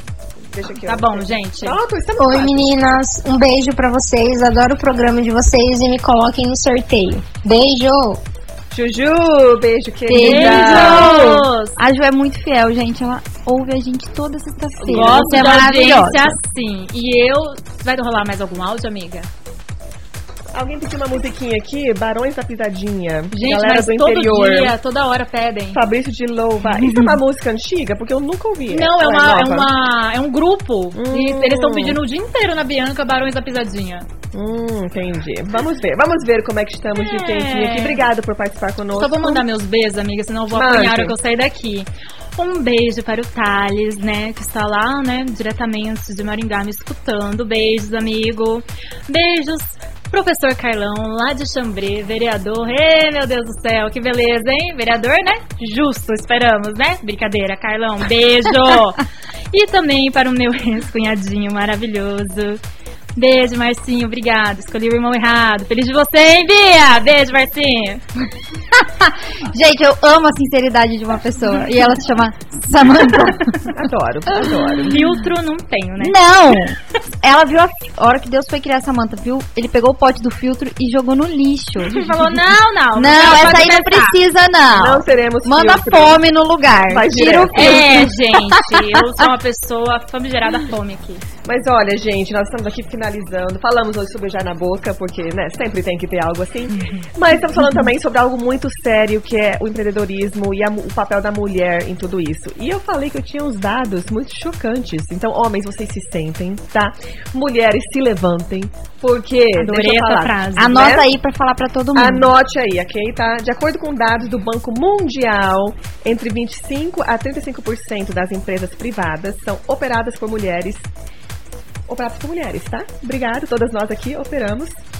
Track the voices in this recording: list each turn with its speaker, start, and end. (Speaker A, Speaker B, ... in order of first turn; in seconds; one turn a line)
Speaker A: 0.5-2.7
Speaker B: 0.8-1.8
Speaker C: 2.2-8.2
Speaker A: 8.7-11.5
Speaker D: 10.1-16.3
Speaker B: 10.2-11.8
Speaker A: 14.8-15.6
Speaker B: 14.8-19.3
Speaker A: 20.5-24.8
Speaker B: 23.3-25.8
Speaker A: 25.7-29.7
Speaker B: 26.7-27.1
Speaker B: 28.7-34.1
Speaker A: 30.9-32.0
Speaker A: 34.3-39.5
Speaker B: 37.0-38.0
Speaker B: 39.0-62.6
Speaker A: 40.5-41.2
Speaker B: 63.2-68.0
Speaker D: 68.8-73.7
Speaker A: 73.7-75.0
Speaker B: 74.9-76.2
Speaker D: 76.0-82.3
Speaker B: 81.9-84.2
Speaker D: 83.0-88.9
Speaker A: 84.7-86.2
Speaker A: 86.9-88.1
Speaker B: 87.5-91.2
Speaker A: 91.5-111.1
Speaker B: 96.7-97.1
Speaker B: 109.6-110.8
Speaker D: 110.6-112.3
Speaker A: 112.0-120.9
Speaker A: 121.9-124.8